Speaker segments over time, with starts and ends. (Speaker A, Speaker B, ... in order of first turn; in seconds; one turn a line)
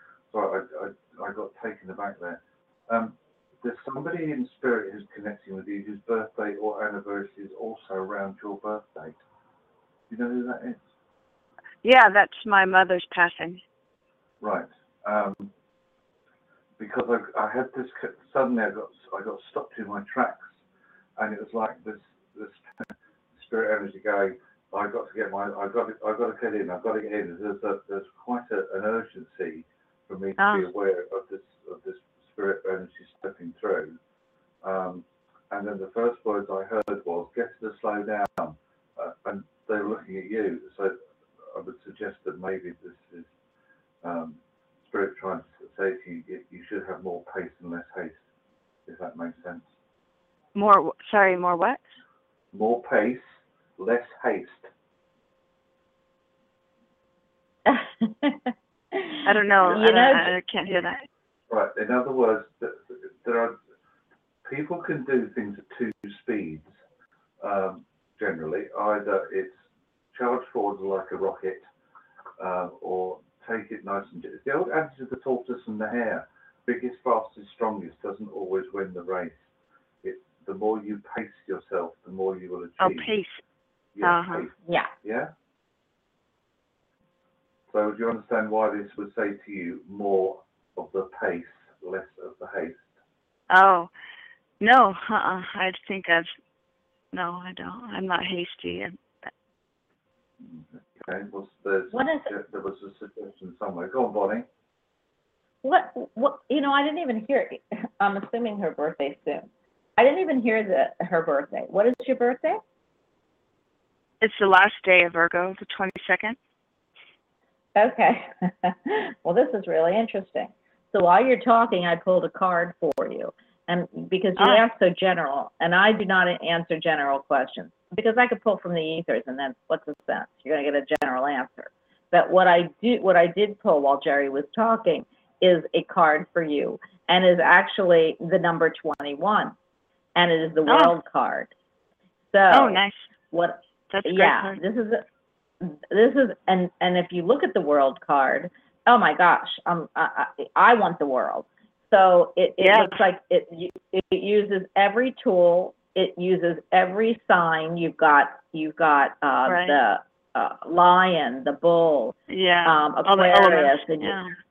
Speaker A: 0.3-9.2
Speaker A: 10.1-10.8
Speaker B: 11.8-13.6
Speaker A: 14.4-15.5
Speaker A: 16.8-20.6
Speaker A: 21.2-34.0
Speaker B: 30.4-30.7
Speaker A: 34.6-43.3
Speaker A: 44.0-48.2
Speaker A: 48.9-49.7
Speaker B: 50.5-51.8
Speaker A: 52.5-54.7
Speaker C: 57.7-60.4
Speaker B: 59.2-61.0
Speaker A: 61.5-63.6
Speaker A: 64.4-66.7
Speaker A: 67.4-71.7
Speaker A: 72.4-79.5
Speaker A: 80.0-83.1
Speaker B: 82.8-83.4
Speaker A: 84.0-85.3
Speaker B: 84.0-84.5
Speaker A: 87.7-93.0
Speaker B: 93.5-93.9
Speaker B: 94.6-96.3
Speaker B: 97.1-99.0
Speaker A: 100.4-104.5
Speaker C: 101.9-102.3
Speaker C: 105.6-112.6
Speaker B: 114.2-116.4
Speaker C: 117.8-139.6
Speaker B: 124.4-124.6
Speaker C: 140.2-141.5
Speaker B: 140.7-140.9
Speaker C: 142.3-145.0
Speaker B: 142.5-143.0
Speaker B: 143.9-144.6
Speaker C: 145.6-164.2
Speaker B: 152.6-153.1
Speaker B: 159.5-159.8
Speaker B: 162.3-164.3